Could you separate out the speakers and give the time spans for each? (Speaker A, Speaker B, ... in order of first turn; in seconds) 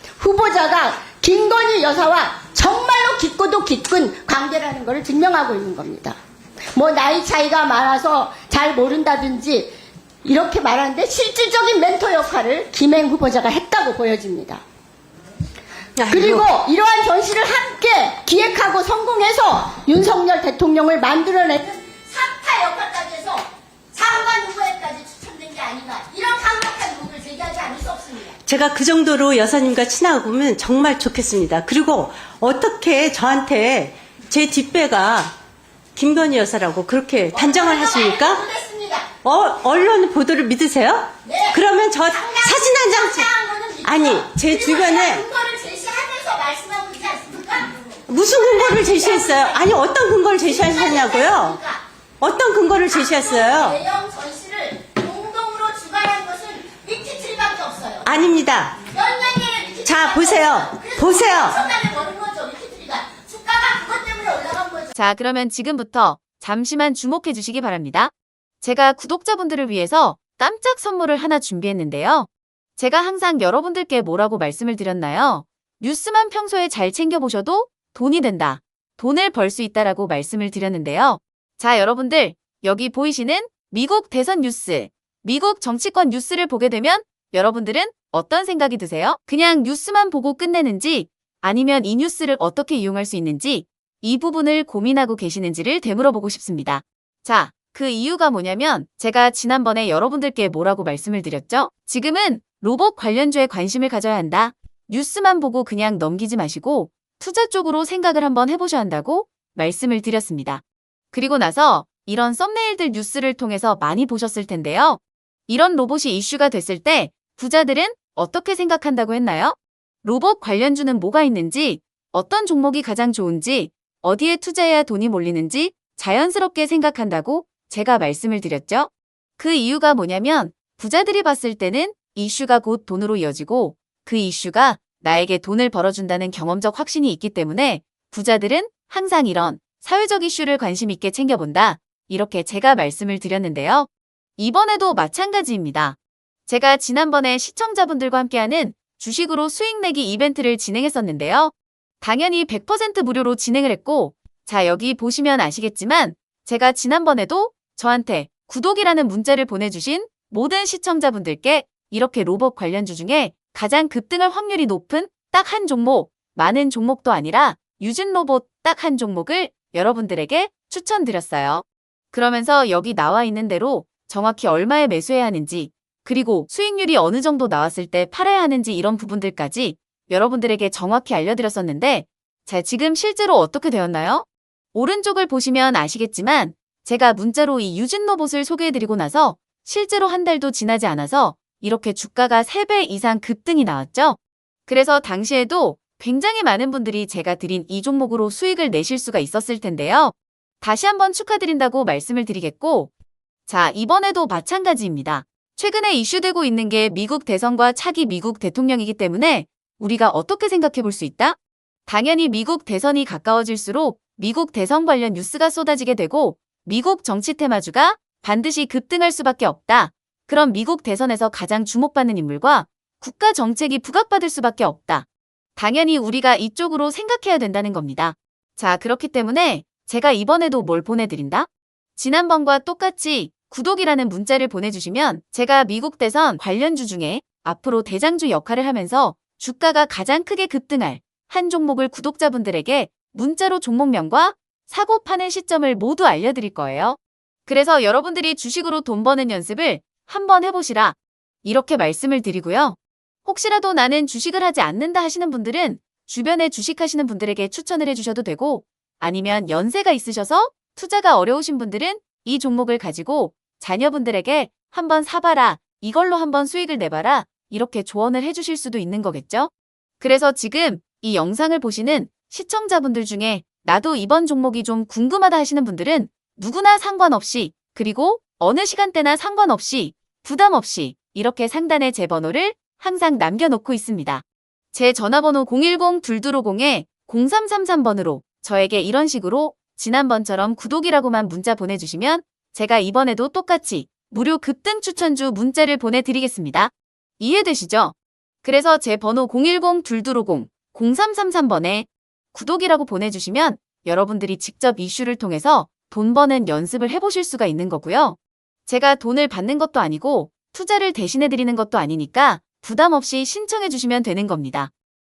Speaker A: 0.2-6.2, 6.8-9.7, 10.2-14.6, 16.1-28.4, 37.3-39.1, 41.2-41.6, 42.1-49.8, 50.4-51.8, 52.9-58.1, 58.9-65.0
Speaker B: 16.0-16.5, 28.5-35.3, 36.0-38.4, 39.2-43.3, 43.8-45.3, 48.1-51.6, 52.2-53.8, 58.0-58.8, 59.9-61.6
Speaker C: 65.0-202.9, 203.5-314.7